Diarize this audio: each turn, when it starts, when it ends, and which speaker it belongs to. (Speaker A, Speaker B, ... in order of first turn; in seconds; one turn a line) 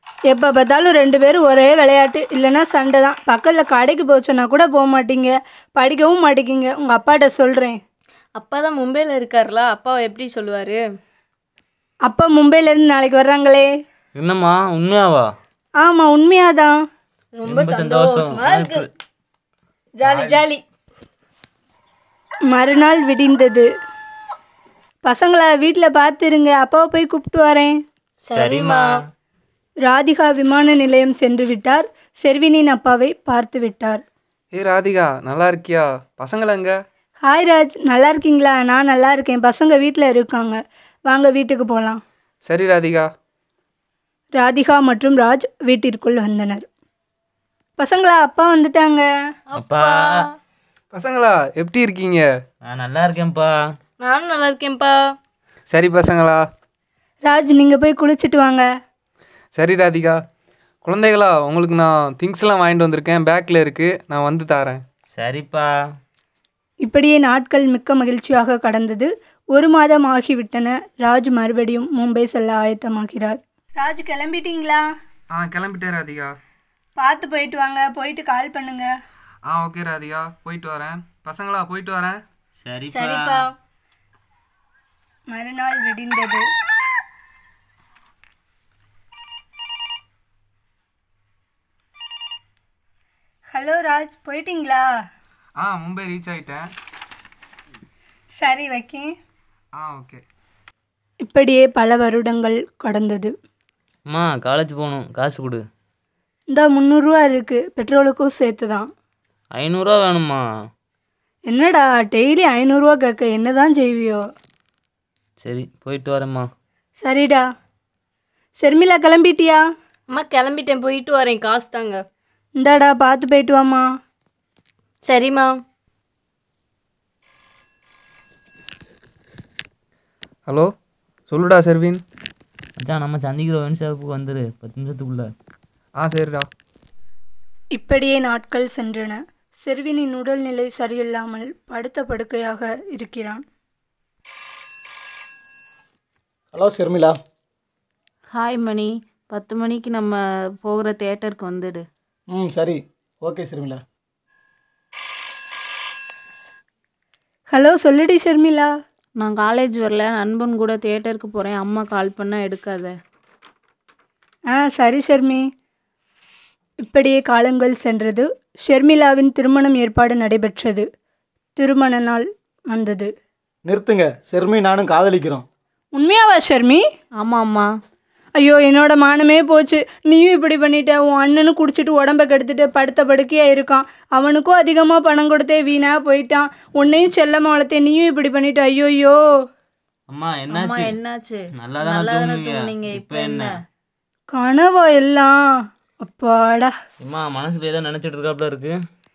Speaker A: 0.3-7.8
Speaker B: 8.4-10.8
Speaker A: 12.1-13.7
Speaker C: 14.2-15.2
Speaker A: 15.8-16.7
Speaker B: 17.4-18.8
Speaker C: 17.4-18.9
Speaker B: 20.0-20.6
Speaker A: 22.5-23.7
Speaker A: 25.1-27.8
Speaker B: 28.3-29.0
Speaker C: 28.3-28.9
Speaker A: 29.8-34.0
Speaker D: 34.5-36.7
Speaker A: 37.2-42.0
Speaker D: 42.5-43.1
Speaker A: 44.4-46.7
Speaker A: 47.8-49.1
Speaker C: 49.5-50.3
Speaker B: 49.6-50.3
Speaker D: 50.9-52.3
Speaker C: 52.6-53.5
Speaker B: 54.0-54.9
Speaker D: 55.7-56.4
Speaker A: 57.3-58.6
Speaker D: 59.5-60.2
Speaker D: 60.8-64.8
Speaker C: 65.1-65.7
Speaker A: 66.8-74.9
Speaker D: 75.3-76.3
Speaker A: 77.0-78.9
Speaker D: 79.5-82.2
Speaker C: 82.6-83.5
Speaker B: 82.9-83.5
Speaker A: 85.3-86.4
Speaker A: 93.5-94.9
Speaker D: 95.6-96.7
Speaker A: 98.4-99.1
Speaker D: 99.8-100.2
Speaker A: 101.2-103.3
Speaker C: 104.1-105.6
Speaker A: 106.5-108.9
Speaker C: 109.5-110.4
Speaker A: 111.5-114.2
Speaker C: 115.4-116.5
Speaker A: 117.0-117.4
Speaker A: 118.6-119.6
Speaker B: 120.1-122.0
Speaker A: 122.6-123.8
Speaker B: 125.1-125.5
Speaker D: 131.3-132.0
Speaker C: 132.8-135.3
Speaker D: 136.0-136.5
Speaker A: 137.7-143.4
Speaker E: 146.5-147.2
Speaker F: 148.3-151.8
Speaker E: 152.3-153.8
Speaker A: 157.5-158.7
Speaker F: 159.2-162.9
Speaker A: 164.5-165.4
Speaker A: 166.8-170.8
Speaker A: 171.6-173.1
Speaker E: 173.7-175.4
Speaker A: 175.9-176.8
Speaker F: 177.2-177.7
Speaker A: 178.4-189.2
Speaker C: 190.1-190.9
Speaker F: 190.5-193.5
Speaker C: 191.6-193.5
Speaker A: 194.3-195.4
Speaker A: 196.0-196.7
Speaker C: 197.0-198.7